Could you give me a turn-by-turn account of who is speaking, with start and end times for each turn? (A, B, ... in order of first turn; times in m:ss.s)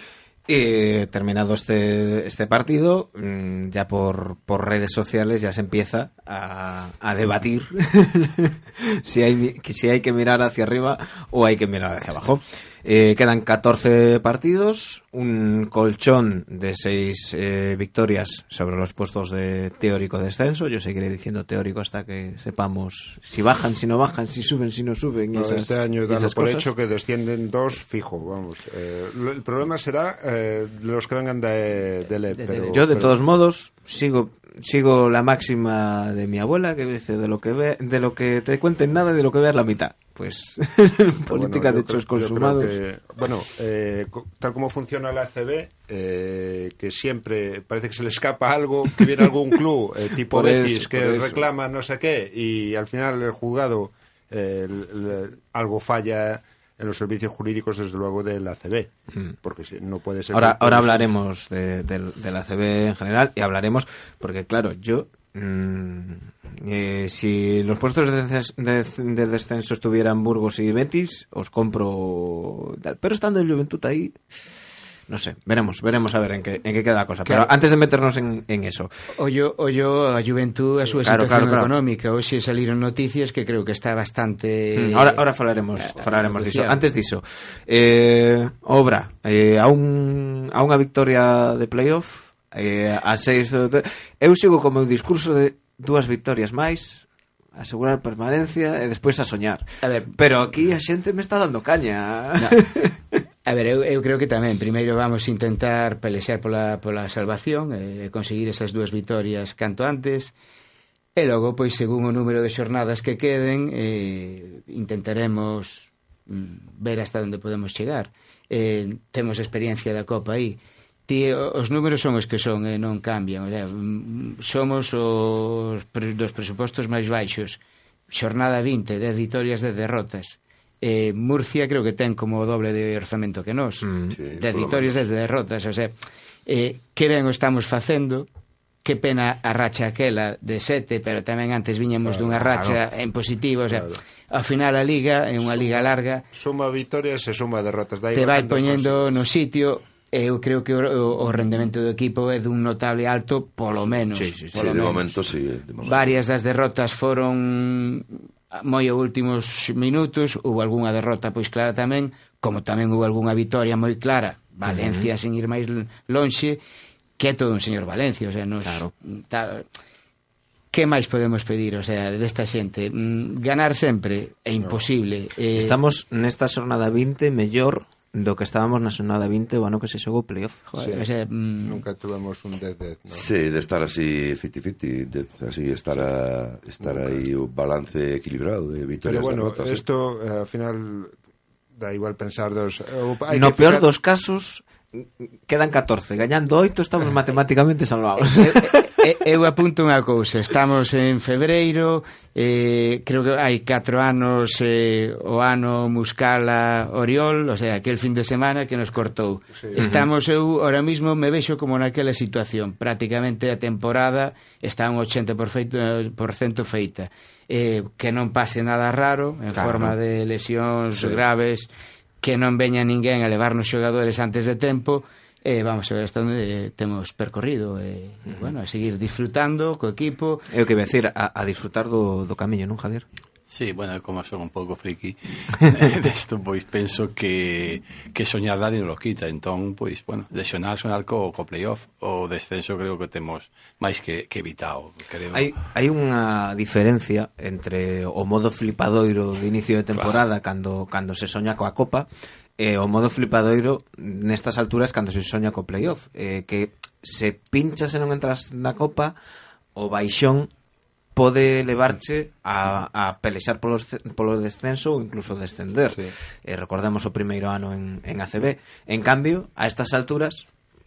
0:00.5-0:26.7 A
0:25.3-0:33.1 B
0:32.3-0:32.7 C
0:32.7-0:42.8 A
0:41.3-1:01.1 B
0:50.3-0:51.4 A
1:00.3-1:14.4 A
1:15.1-1:18.9 A
1:17.2-1:17.5 C
1:19.2-1:25.2 C
1:21.0-1:21.7 A
1:24.8-1:43.2 A
1:25.8-1:26.8 C
1:39.8-1:40.1 C
1:43.5-1:50.3 C
1:51.2-2:16.0 C
2:13.8-2:14.2 A
2:14.1-2:15.0 D
2:16.5-2:18.3 C
2:18.8-2:26.3 C
2:22.1-2:22.4 B
2:22.4-2:22.8 A
2:23.7-2:24.0 B
2:26.3-2:29.2 B
2:28.1-2:35.1 C
2:34.1-2:34.9 A
2:34.5-2:36.2 D
2:35.8-2:46.6 C
2:44.6-2:45.1 A
2:47.2-2:49.7 C
2:48.6-2:48.9 A
2:50.7-2:55.8 C
2:55.6-3:00.6 A
3:00.7-3:01.8 C
3:00.8-3:01.1 B
3:01.6-3:03.3 B
3:03.1-3:09.8 D
3:06.8-3:07.2 B
3:09.0-3:11.1 B
3:11.8-3:13.9 B
3:13.3-3:19.0 A
3:18.2-3:41.7 C
3:29.8-3:30.1 A
3:39.6-3:39.9 A
3:42.2-3:50.5 C
3:50.5-3:53.1 A
3:53.5-4:05.6 E
4:05.3-4:12.1 A
4:09.9-4:10.2 E
4:12.6-4:19.2 A
4:19.8-4:20.5 A
4:21.2-4:30.5 A